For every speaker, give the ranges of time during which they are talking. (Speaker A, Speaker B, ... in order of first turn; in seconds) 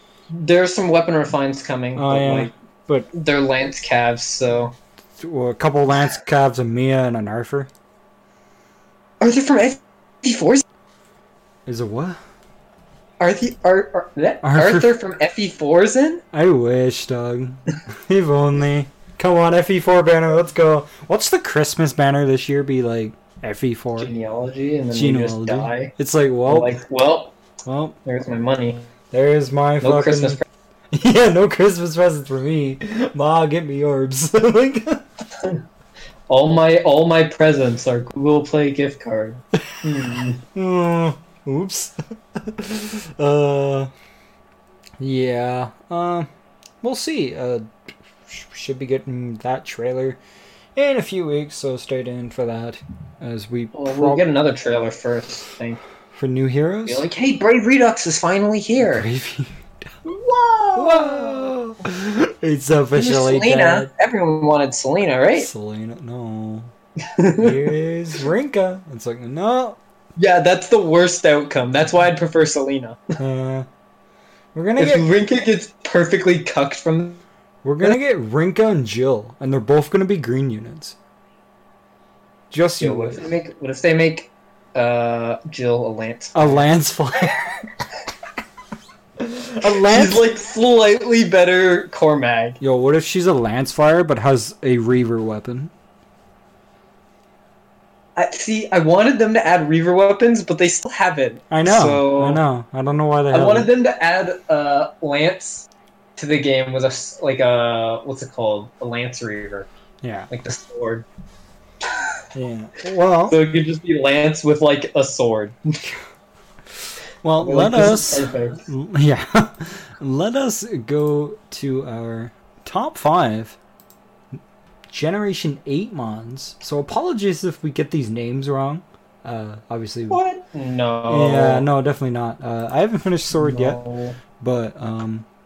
Speaker A: 0.3-2.5, 3.1-4.8, 9.2-10.6, 13.2-16.2, 24.0-25.9, 26.5-27.4, 28.1-28.9, 29.8-30.4, 36.3-40.4, 53.7-55.8, 56.9-59.1, 60.0-61.5, 63.0-65.5, 67.0-67.8, 70.2-73.0, 74.8-77.2, 82.8-86.7, 89.6-92.6, 98.2-102.4, 103.3-109.7, 110.3-111.1, 111.8-112.2, 113.3-115.8, 117.4-118.6, 130.1-131.7, 133.4-134.2
Speaker B: 2.0-3.1, 5.2-7.7, 11.7-12.2, 14.4-15.0, 16.3-24.1, 24.9-26.7, 27.6-28.0, 29.1-30.4, 30.9-35.0, 40.5-43.9, 45.0-46.3, 46.8-47.6, 48.3-50.2, 50.8-54.2, 56.1-57.1, 58.8-59.6, 60.8-63.9, 65.4-66.7, 67.4-69.8, 73.2-73.7, 74.5-75.1, 77.6-81.0, 82.5-83.3, 86.3-87.6, 89.2-90.2, 92.6-95.7, 101.5-103.7, 110.0-110.3, 112.3-113.4, 117.2-123.6, 124.9-130.2, 131.1-133.8, 134.4-135.3